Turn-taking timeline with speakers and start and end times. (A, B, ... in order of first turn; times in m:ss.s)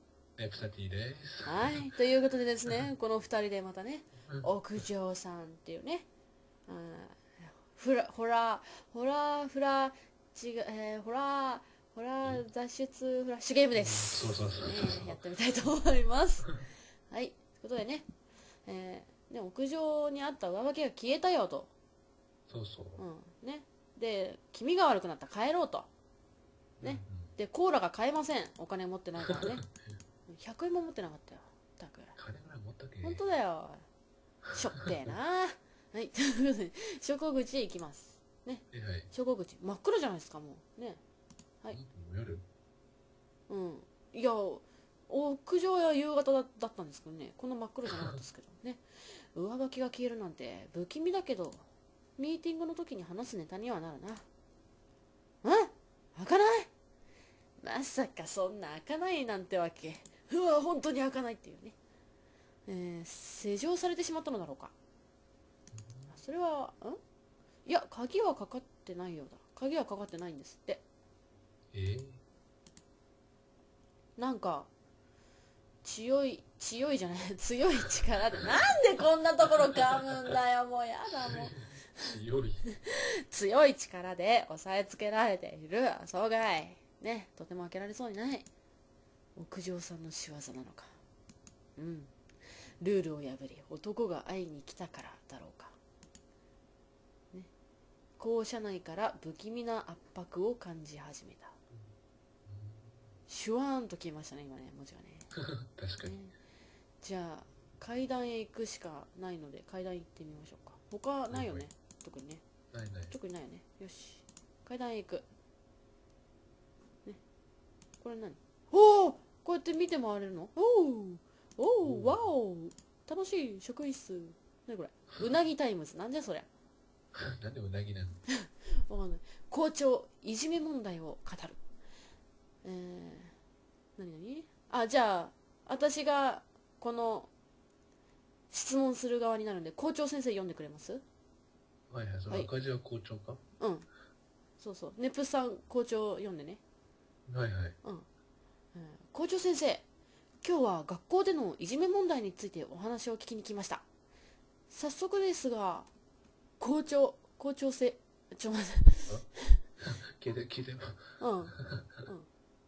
0:00.4-0:01.9 A
0:01.4-0:06.1 B
0:06.7-0:18.1 B
0:13.7-0:15.2 A
0:18.6-0:21.7 B
0:22.5-0:23.0 A
0:23.0-0:25.9 B
0:26.8-0:27.4 A
0:26.8-0:29.6 B
0:30.3-0:32.2 B
0:32.2-0:33.2 A
0:33.0-0:33.8 B
0:34.5-0:41.0 B
0:38.7-0:39.1 A
0:41.7-0:42.4 A
0:43.5-0:51.6 B
0:52.2-0:54.2 B
0:55.4-0:56.7 B
0:57.6-1:01.8 B
1:02.7-1:04.7 B
1:05.7-1:06.2 A
1:06.1-1:07.0 B
1:07.6-1:10.8 B
1:11.7-1:12.2 A
1:14.2-1:14.7 B
1:15.8-1:22.1 B
1:21.1-1:22.6 A
1:22.7-1:28.5 B
1:29.4-1:30.9 B
1:31.8-1:32.1 B
1:32.8-1:35.8 B
1:38.2-1:41.5 B
1:42.4-1:42.9 A
1:43.3-1:45.3 B
1:45.6-1:46.2 A
1:46.0-1:46.3 B
1:47.0-1:52.4 B
1:51.3-1:51.7 A
1:52.7-1:53.1 A
1:53.1-1:55.2 B
1:58.0-2:06.5 B
2:01.8-2:02.2 A
2:07.1-2:08.2 A
2:08.3-2:11.6 B
2:12.6-2:13.3 B
2:14.0-2:17.3 B
2:18.5-2:21.0 B
2:21.9-2:23.4 A
2:23.6-2:23.9 B
2:24.6-2:26.6 B
2:27.3-2:27.8 A
2:28.7-2:29.8 B
2:30.4-2:33.8 B
2:34.7-2:35.9 B
2:36.6-2:39.6 B
2:39.8-2:42.0 A
2:41.2-2:42.3 B